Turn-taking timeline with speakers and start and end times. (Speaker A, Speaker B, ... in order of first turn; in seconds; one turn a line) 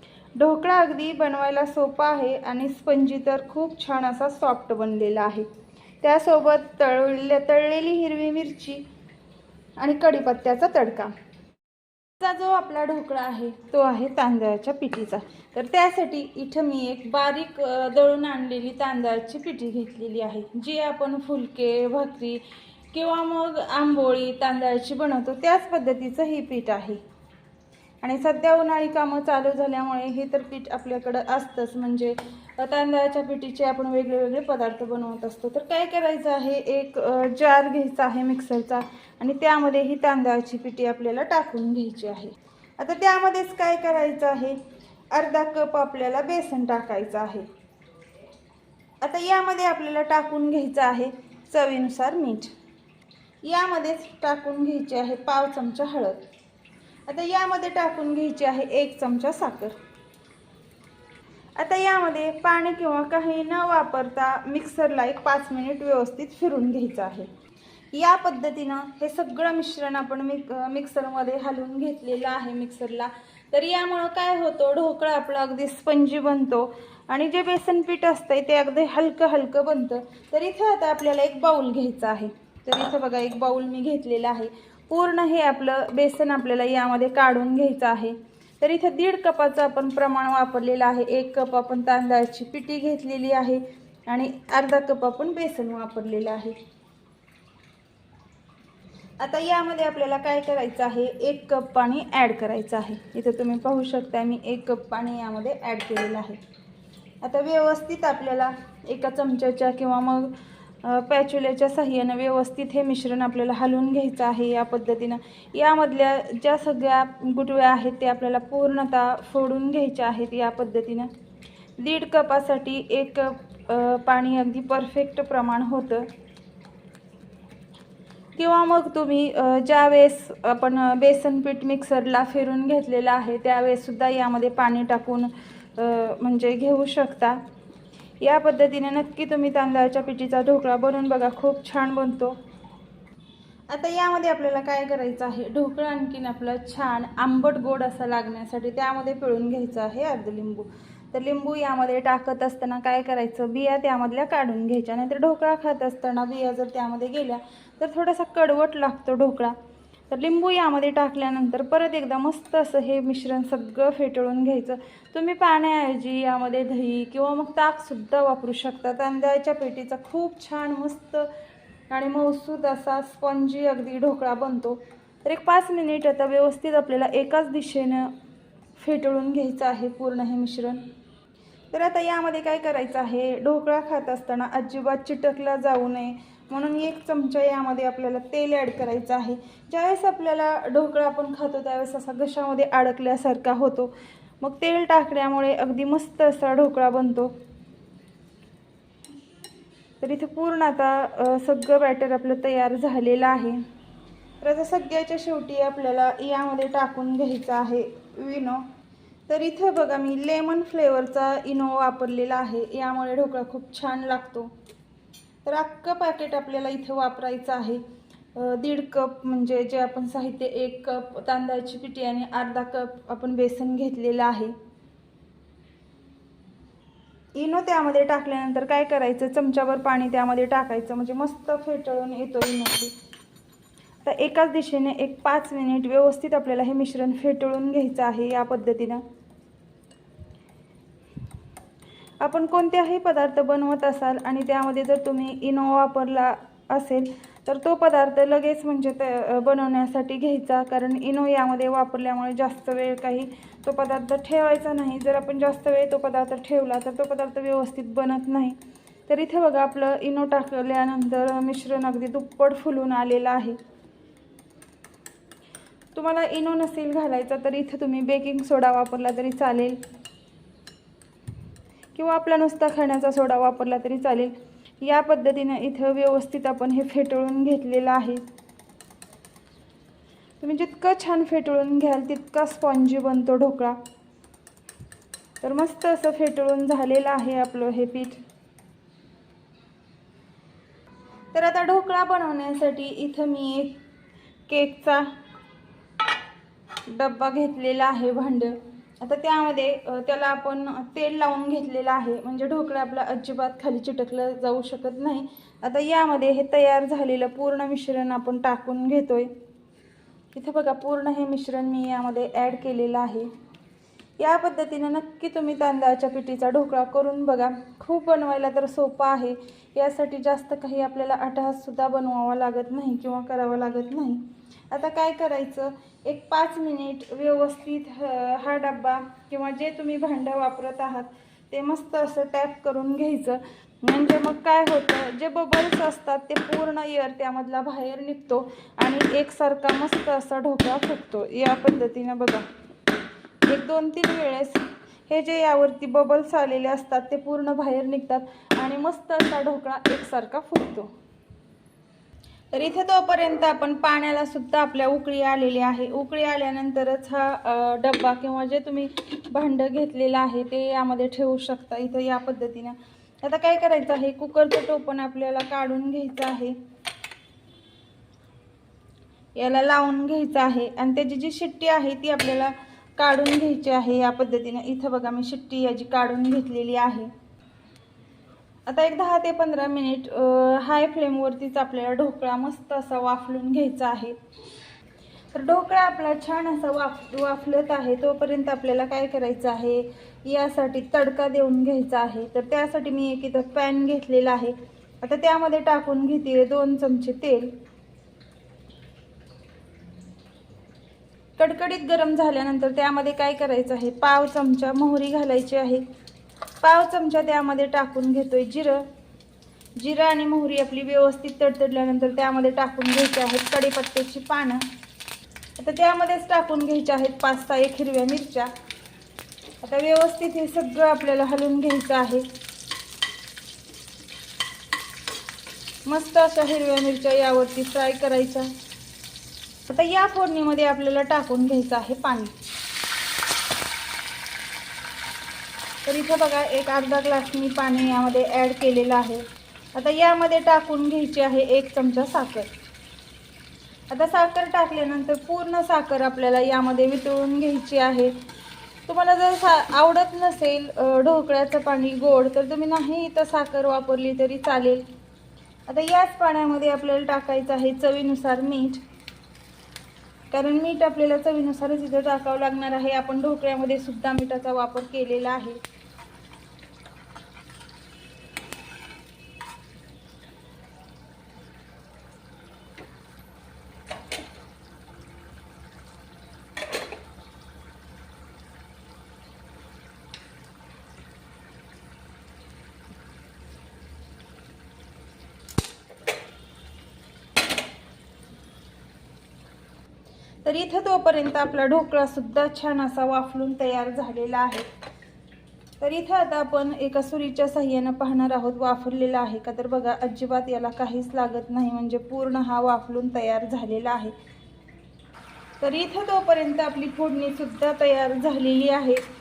Speaker A: 0.4-5.5
Speaker A: 6.0-8.8
Speaker A: 9.8-11.1
Speaker A: 12.2-27.0
Speaker A: 28.0-44.6
Speaker A: 45.1-47.5
Speaker A: 49.0-52.5
Speaker A: 53.4-56.2
Speaker A: 57.1-59.8
Speaker A: 61.6-67.3
Speaker A: 67.9-96.6
Speaker A: 99.2-106.4
Speaker A: 107.2-121.1
Speaker A: 121.8-126.1
Speaker A: 128.4-137.4
Speaker A: 138.2-142.4
Speaker A: 143.7-159.6
Speaker A: 160.1-171.3
Speaker A: 171.9-178.1
Speaker A: 178.8-180.8
Speaker A: 181.7-197.3
Speaker A: 200.0-203.6
Speaker A: 204.4-208.7
Speaker A: 209.3-214.5
Speaker A: 215.4-224.6
Speaker A: 227.3-232.9
Speaker A: 234.0-239.0
Speaker A: 242.2-263.6
Speaker A: 265.9-269.8
Speaker A: 271.9-278.2
Speaker A: 280.4-283.8
Speaker A: 285.4-288.2
Speaker A: 291.3-293.8
Speaker A: 294.5-295.1
Speaker A: 296.9-309.3
Speaker A: 310.3-313.3
Speaker A: 314.2-342.5
Speaker A: 343.5-350.9
Speaker A: 352.5-366.6
Speaker A: 369.4-377.1
Speaker A: 378.7-384.2
Speaker A: 385.3-397.5
Speaker A: 401.4-405.9
Speaker A: 406.6-408.8
Speaker A: 409.8-414.6
Speaker A: 415.6-418.5
Speaker A: 419.6-422.3
Speaker A: 425.9-428.5
Speaker A: 429.7-432.3
Speaker A: 435.9-439.2
Speaker A: 439.8-442.5
Speaker A: 443.9-448.1
Speaker A: 448.9-454.9
Speaker A: 455.7-458.8
Speaker A: 460.3-465.6
Speaker A: 490.4-494.7
Speaker A: 495.8-504.1
Speaker A: 505.6-509.0